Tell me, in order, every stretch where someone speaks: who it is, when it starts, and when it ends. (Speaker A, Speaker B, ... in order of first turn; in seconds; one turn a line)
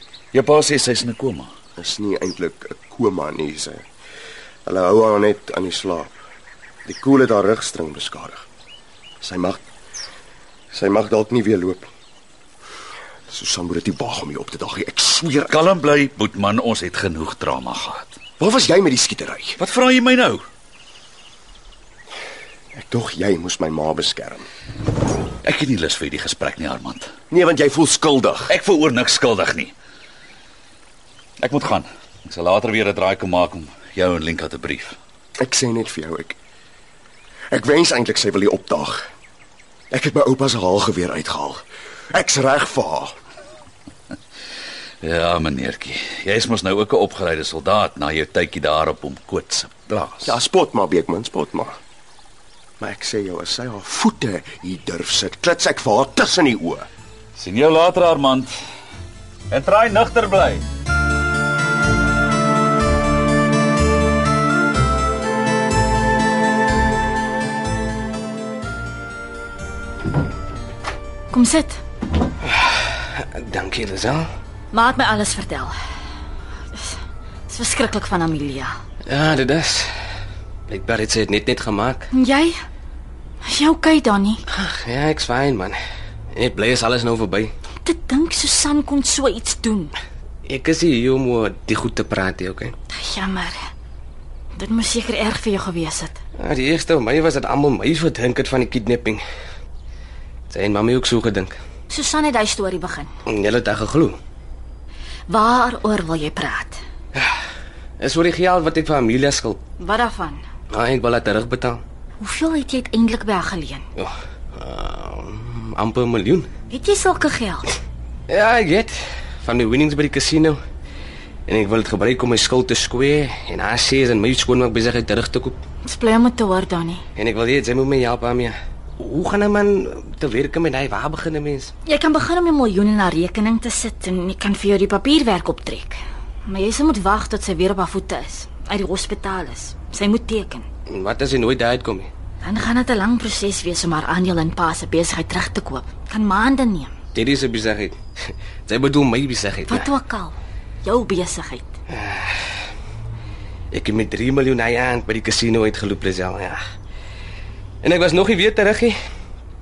Speaker A: 0.3-1.5
Speaker B: 1.8-3.9
Speaker B: 4.7-6.1
Speaker B: 6.8-8.5
Speaker B: 9.2-9.6
Speaker B: 10.7-11.9
Speaker B: 13.3-15.6
Speaker A: 15.5-18.2
Speaker B: 18.4-19.6
Speaker A: 19.6-20.4
Speaker B: 22.8-24.5
Speaker A: 25.4-27.1
Speaker B: 27.3-28.5
Speaker A: 28.5-29.7
Speaker A: 31.4-35.0
Speaker B: 35.4-36.4
Speaker B: 37.5-39.1
Speaker B: 39.9-43.1
Speaker A: 45.0-50.4
Speaker B: 50.2-51.8
Speaker B: 52.8-56.9
Speaker A: 57.4-58.5
Speaker A: 59.5-60.6
Speaker C: 71.3-71.8
Speaker D: 72.4-74.3
Speaker C: 74.7-75.7
Speaker C: 77.5-78.7
Speaker D: 79.1-79.9
Speaker D: 80.7-82.1
Speaker C: 82.1-82.5
Speaker C: 83.4-84.4
Speaker D: 84.5-85.8
Speaker D: 86.3-87.5
Speaker C: 87.8-90.0
Speaker D: 90.5-92.7
Speaker C: 92.9-93.6
Speaker C: 94.6-96.2
Speaker D: 96.4-99.2
Speaker D: 100.5-101.6
Speaker C: 101.9-103.1
Speaker D: 103.3-104.2
Speaker C: 105.3-106.8
Speaker D: 108.0-109.6
Speaker C: 109.8-110.4
Speaker D: 110.7-111.8
Speaker C: 112.2-113.8
Speaker D: 114.0-116.5
Speaker C: 116.7-117.8
Speaker D: 118.3-120.6
Speaker D: 121.5-125.6
Speaker C: 125.8-127.0
Speaker D: 127.2-131.7
Speaker C: 131.8-140.7
Speaker D: 140.9-142.1
Speaker C: 142.4-146.9
Speaker D: 147.1-148.0
Speaker D: 148.7-149.9
Speaker C: 149.7-151.7
Speaker D: 151.9-152.3
Speaker D: 153.7-156.6
Speaker D: 157.8-158.9